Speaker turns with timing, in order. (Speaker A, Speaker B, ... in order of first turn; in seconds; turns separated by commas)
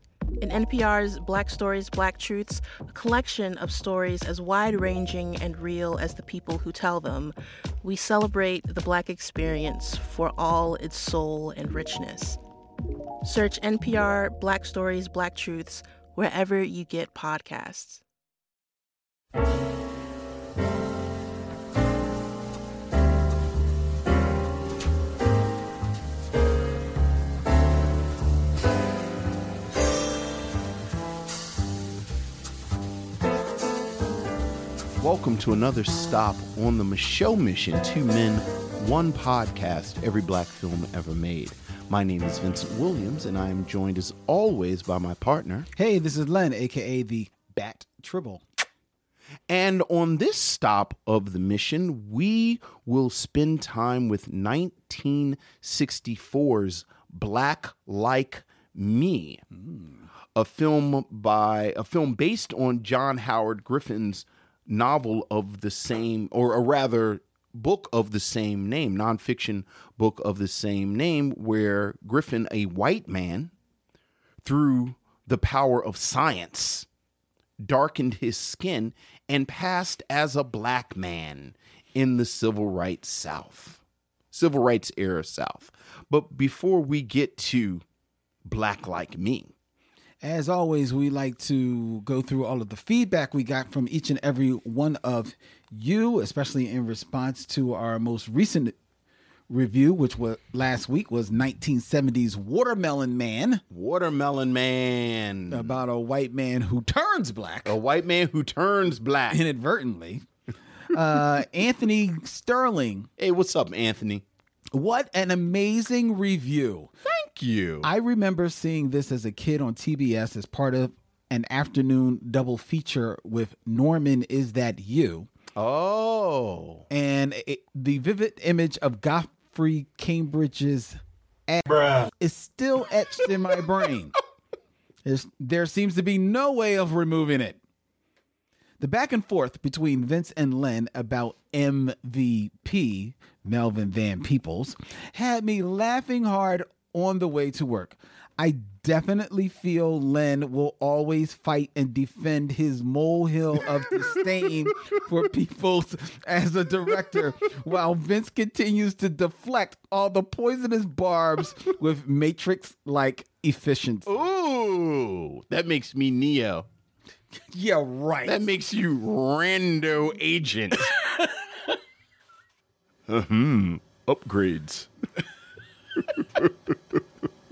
Speaker A: 0.4-12.4, Speaker A: 13.2-18.0, Speaker B: 35.0-45.7, Speaker C: 45.8-48.4, Speaker B: 49.5-59.4, Speaker C: 59.6-59.9, Speaker B: 60.3-73.5, Speaker B: 74.4-76.9, Speaker B: 77.6-83.8, Speaker B: 84.3-87.8, Speaker B: 88.4-89.5, Speaker C: 90.2-98.7, Speaker C: 99.5-103.6, Speaker B: 103.7-105.7, Speaker C: 105.5-107.8, Speaker B: 107.7-109.4, Speaker C: 109.3-110.2, Speaker C: 110.9-113.1, Speaker B: 113.2-114.2, Speaker C: 114.7-116.9, Speaker B: 117.0-117.9, Speaker C: 117.8-125.3, Speaker B: 125.5-126.8, Speaker C: 126.9-134.2, Speaker C: 135.0-137.6, Speaker C: 138.8-164.2, Speaker B: 164.1-166.7, Speaker C: 167.5-168.4, Speaker B: 168.2-170.9, Speaker C: 170.9-171.6, Speaker B: 173.1-174.9, Speaker B: 176.2-176.7